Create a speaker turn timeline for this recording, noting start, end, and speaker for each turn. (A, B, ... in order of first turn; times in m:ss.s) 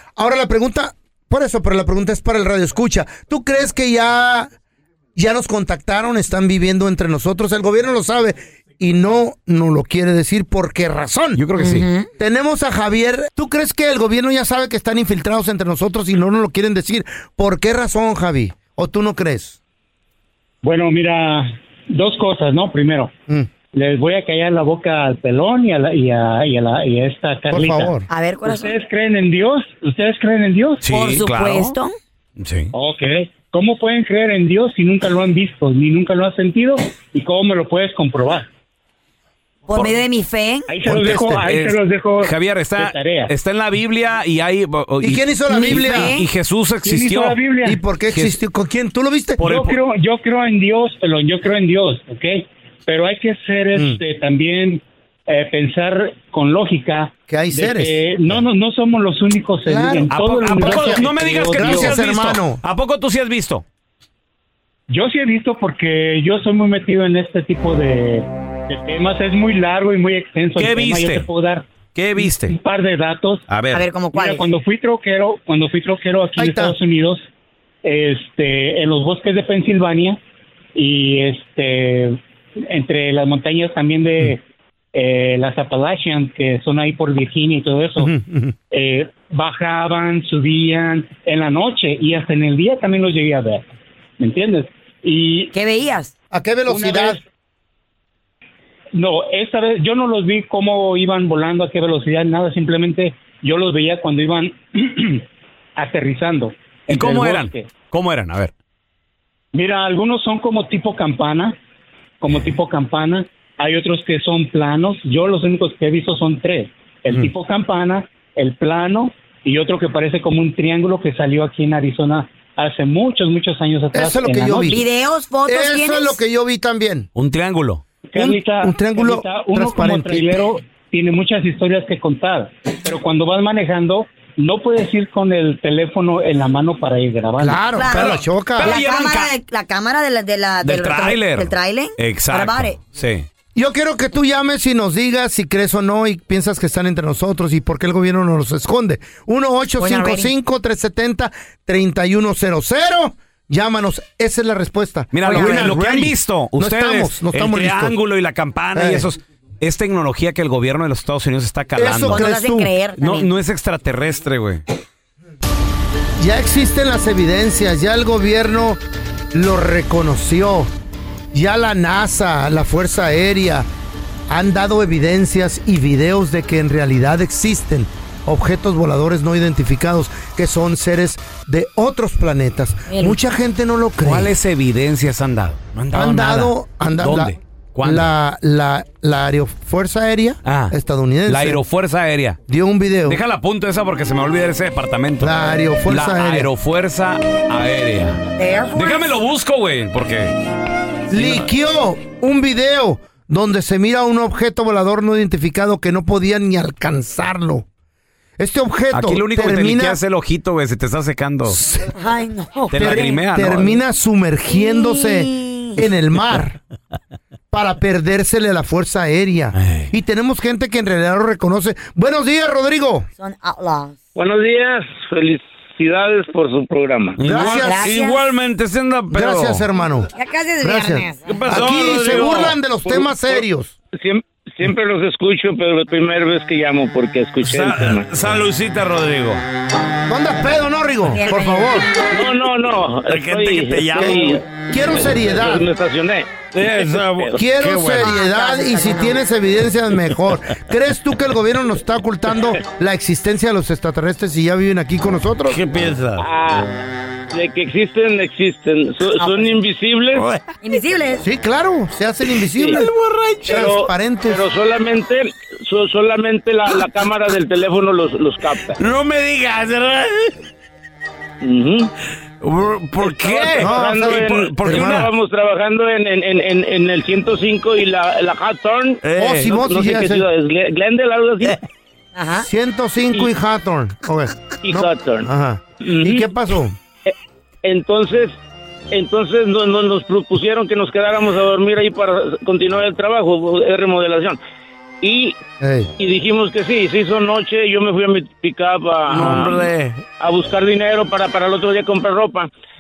0:00.2-0:04.5 A
0:05.1-0:11.4 A
0:11.4-0:11.9 B
0:11.6-0:12.1 C
0:12.2-0:19.6 A
0:20.6-0:23.1 D
0:23.7-0:30.8 D
0:27.5-0:28.1 A
0:28.1-0:28.8 C
0:30.8-0:31.8 B
0:30.9-0:31.9 C
0:32.4-0:32.7 B
0:32.7-0:38.5 D
0:39.7-0:40.7 C
0:40.7-0:43.3 D
0:40.8-0:41.4 A
0:41.1-0:47.4 B
0:45.0-0:46.2 A
0:45.5-0:46.3 C
0:46.8-0:47.8 D
0:47.6-0:49.4 A
0:48.1-0:48.4 B
0:49.4-0:49.8 B
0:49.4-1:02.0 D
0:53.8-0:54.0 A
0:57.3-0:58.4 A
0:59.6-1:02.6 A
1:00.1-1:03.6 B
1:04.9-1:11.7 D
1:10.6-1:11.3 B
1:12.0-1:12.6 B
1:12.2-1:13.4 D
1:13.5-1:13.9 B
1:13.7-1:14.5 C
1:14.1-1:17.2 D
1:16.4-1:16.8 A
1:17.8-1:20.2 D
1:20.8-1:24.4 D
1:24.9-1:28.1 D
1:28.0-1:28.5 A
1:28.7-1:33.6 D
1:34.2-1:35.5 D
1:35.5-1:36.1 C
1:36.3-1:37.2 A
1:36.7-1:37.2 D
1:38.9-1:45.2 D
1:45.8-1:47.7 D
1:46.9-1:48.5 B
1:49.5-1:51.6 D
1:52.2-2:04.7 D
2:03.9-2:04.8 A
2:04.6-2:06.2 C
2:05.5-2:07.1 A
2:07.2-2:07.8 B
2:08.1-2:17.7 D
2:08.2-2:10.5 A
2:17.4-2:18.8 A
2:17.8-2:22.8 C
2:17.9-2:19.3 B
2:20.6-2:23.2 B
2:23.5-2:38.0 A
2:29.8-2:30.3 C
2:35.1-2:42.3 B
2:35.2-2:35.7 C
2:38.8-2:39.1 A
2:41.8-2:42.7 A
2:42.1-2:43.3 C
2:43.0-2:44.6 B
2:46.2-2:48.8 A
2:49.3-2:50.7 A
2:51.3-2:53.7 A
2:54.3-3:04.3 A
3:02.9-3:03.1 C
3:04.0-3:08.1 B
3:05.9-3:11.6 A
3:10.4-3:10.7 B
3:11.3-3:12.4 B
3:12.5-3:13.2 A
3:13.1-3:20.3 B
3:15.2-3:16.5 A
3:18.4-3:19.1 C
3:21.1-3:27.6 A
3:21.1-3:21.4 B
3:28.4-3:30.0 A
3:28.9-3:31.6 B
3:31.5-3:31.9 A
3:32.0-3:33.0 C
3:32.7-3:33.8 B
3:32.7-3:36.6 A
3:34.5-3:35.8 C
3:37.5-3:43.1 A
3:39.5-3:39.9 B
3:43.2-3:44.0 C
3:44.2-3:47.2 E
3:47.2-3:49.6 B
3:47.2-3:47.9 A
3:47.4-3:48.2 C
3:49.1-3:50.1 A
3:50.1-3:51.6 C
3:50.6-3:53.8 A
3:51.2-3:52.6 B
3:52.9-3:53.4 E
3:54.0-3:58.1 E
3:57.4-3:59.4 B
4:00.1-4:01.9 A
4:01.1-4:01.9 C
4:02.1-4:07.4 E
4:03.1-4:04.4 B
4:04.0-4:05.7 A
4:06.5-4:08.1 B
4:07.3-4:15.6 A
4:08.0-4:09.2 C
4:15.5-4:16.2 B
4:16.2-4:16.7 E
4:17.3-4:20.3 E
4:19.1-4:19.5 C
4:20.6-4:21.2 C
4:21.2-4:22.9 A
4:22.7-4:23.6 B
4:23.5-4:24.4 A
4:23.5-4:28.8 E
4:28.8-4:30.3 B
4:31.4-4:31.9 E
4:32.4-4:35.1 B
4:33.0-4:41.6 E
4:33.6-4:35.1 A
4:39.0-4:39.5 B
4:39.2-4:40.2 A
4:42.2-4:42.5 C
4:42.4-4:46.8 A
4:44.6-4:45.3 E
4:45.8-4:46.2 E
4:47.1-4:48.4 E
4:48.9-4:54.4 E
4:55.0-4:55.4 E
4:55.6-4:55.9 A
4:56.0-4:59.6 E
4:59.1-4:59.9 B
5:00.2-5:02.5 E